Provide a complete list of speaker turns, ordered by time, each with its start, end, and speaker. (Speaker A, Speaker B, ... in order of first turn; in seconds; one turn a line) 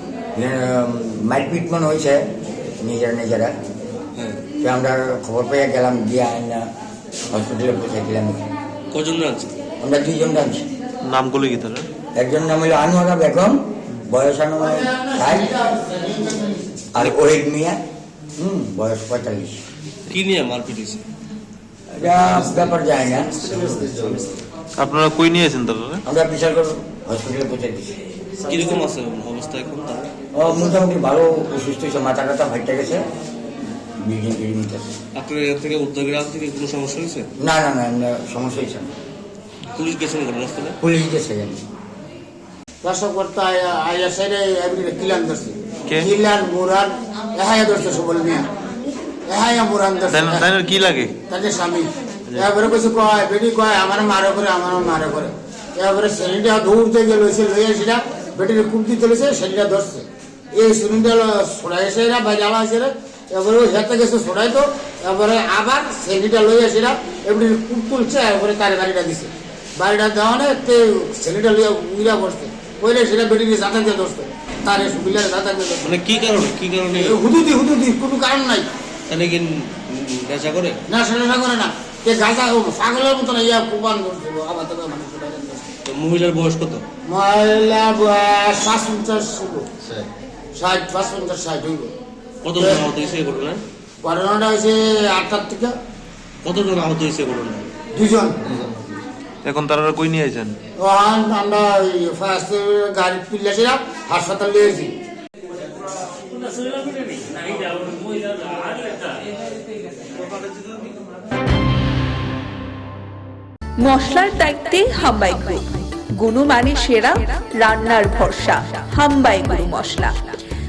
Speaker A: 0.3-3.5
Speaker B: 4.2-4.4
Speaker A: 4.6-6.7
Speaker A: 7.3-8.4
Speaker B: 8.9-9.5
Speaker A: 9.8-10.7
Speaker C: 11.1-11.9
Speaker A: 12.1-15.6
Speaker D: 14.8-16.9
Speaker A: 16.9-17.8
Speaker A: 18.4-19.6
Speaker B: 20.1-21.0
Speaker A: 21.9-23.3
Speaker B: 23.5-24.3
Speaker C: 24.8-26.0
Speaker A: 26.1-28.0
Speaker B: 28.4-30.1
Speaker A: 30.3-33.0
Speaker A: 34.0-34.9
Speaker B: 35.1-37.3
Speaker A: 37.4-38.9
Speaker B: 39.7-40.8
Speaker A: 40.8-41.6
Speaker D: 42.8-48.5
Speaker D: 49.2-50.5
Speaker C: 50.1-51.2
Speaker D: 51.2-75.9
Speaker B: 75.8-77.2
Speaker D: 77.0-78.7
Speaker B: 79.1-80.8
Speaker D: 80.9-85.7
Speaker B: 85.8-86.8
Speaker D: 87.1-89.7
Speaker D: 90.5-91.9
Speaker B: 92.4-93.6
Speaker D: 92.6-92.9
Speaker D: 94.0-95.8
Speaker B: 96.4-97.7
Speaker D: 98.0-98.4
Speaker C: 99.4-100.6
Speaker D: 100.8-104.9
Speaker B: 106.2-109.2
Speaker E: 113.8-120.3